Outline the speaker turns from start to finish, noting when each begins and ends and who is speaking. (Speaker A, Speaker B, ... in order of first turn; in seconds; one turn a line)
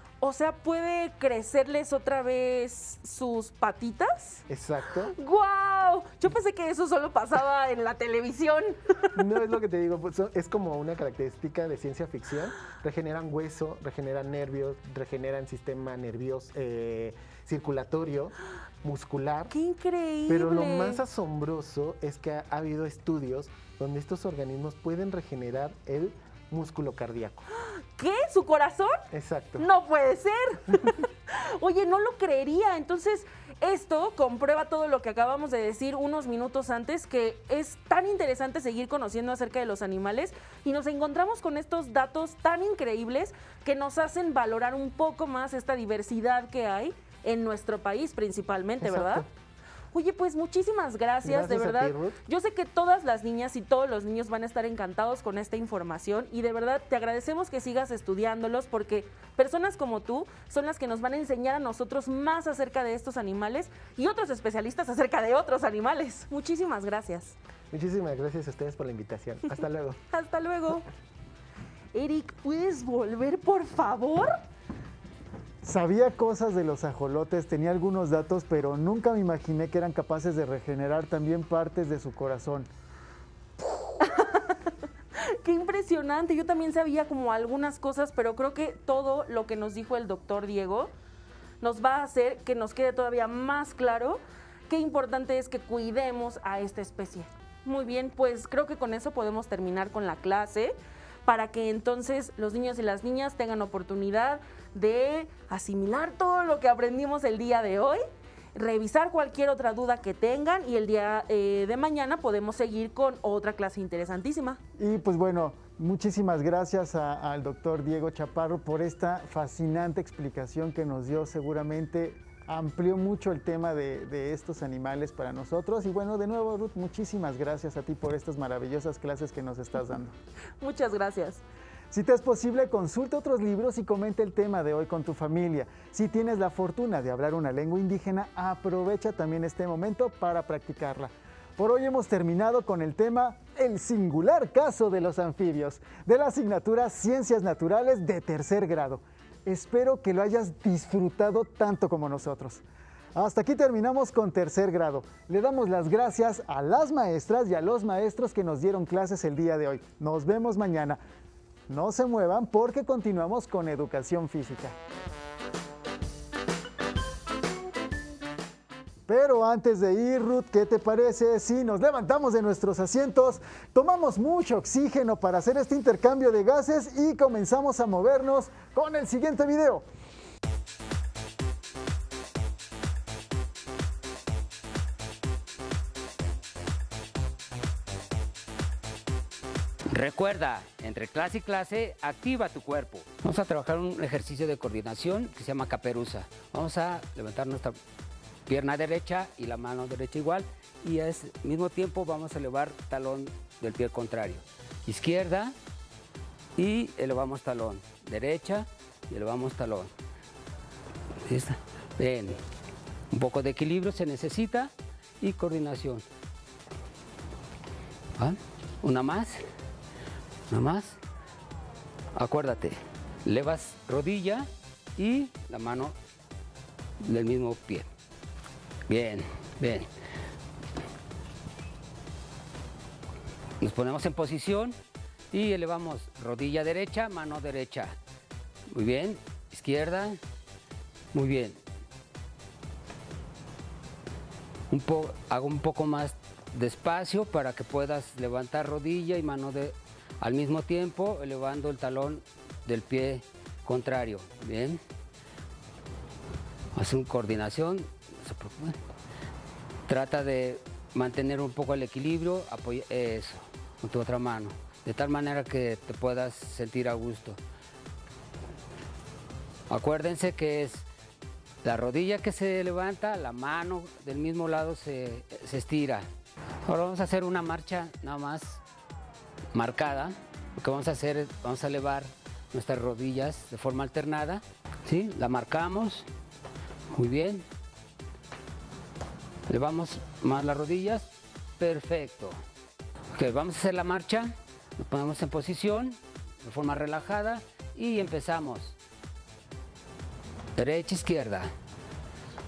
Speaker A: 0.2-4.4
Speaker B: 4.5-5.1
Speaker A: 5.1-9.2
Speaker B: 9.1-19.5
Speaker A: 19.5-21.0
Speaker B: 20.3-27.4
Speaker A: 27.6-29.0
Speaker B: 29.1-29.7
Speaker A: 29.6-49.2
Speaker B: 48.8-49.2
Speaker A: 49.9-67.3
Speaker B: 51.2-52.2
Speaker B: 67.7-70.0
Speaker A: 70.1-70.9
Speaker A: 71.9-74.3
Speaker C: 75.6-82.7
Speaker A: 84.0-84.5
Speaker A: 85.2-90.9
Speaker A: 91.6-108.0
Speaker A: 108.5-114.6
Speaker C: 114.8-130.1
Speaker A: 130.6-131.4
Speaker C: 131.9-152.6
Speaker C: 153.1-161.0
Speaker C: 161.7-164.8
Speaker C: 169.1-179.8
Speaker D: 189.9-197.7
Speaker D: 198.5-205.5
Speaker D: 206.6-209.9
Speaker D: 211.2-212.4
Speaker D: 213.1-216.0
Speaker D: 218.2-219.4
Speaker D: 220.5-221.0
Speaker D: 222.1-225.9
Speaker D: 227.0-227.9
Speaker D: 228.9-229.9
Speaker D: 233.6-234.8
Speaker D: 235.3-237.9
Speaker D: 238.7-240.2
Speaker D: 241.1-241.6
Speaker D: 244.7-254.8
Speaker D: 256.7-258.8
Speaker D: 259.9-267.4
Speaker D: 269.7-270.9
Speaker D: 271.6-276.1
Speaker D: 276.6-278.6
Speaker D: 279.5-286.1
Speaker D: 286.9-287.4
Speaker D: 289.5-292.4
Speaker D: 293.1-298.8
Speaker D: 300.6-301.5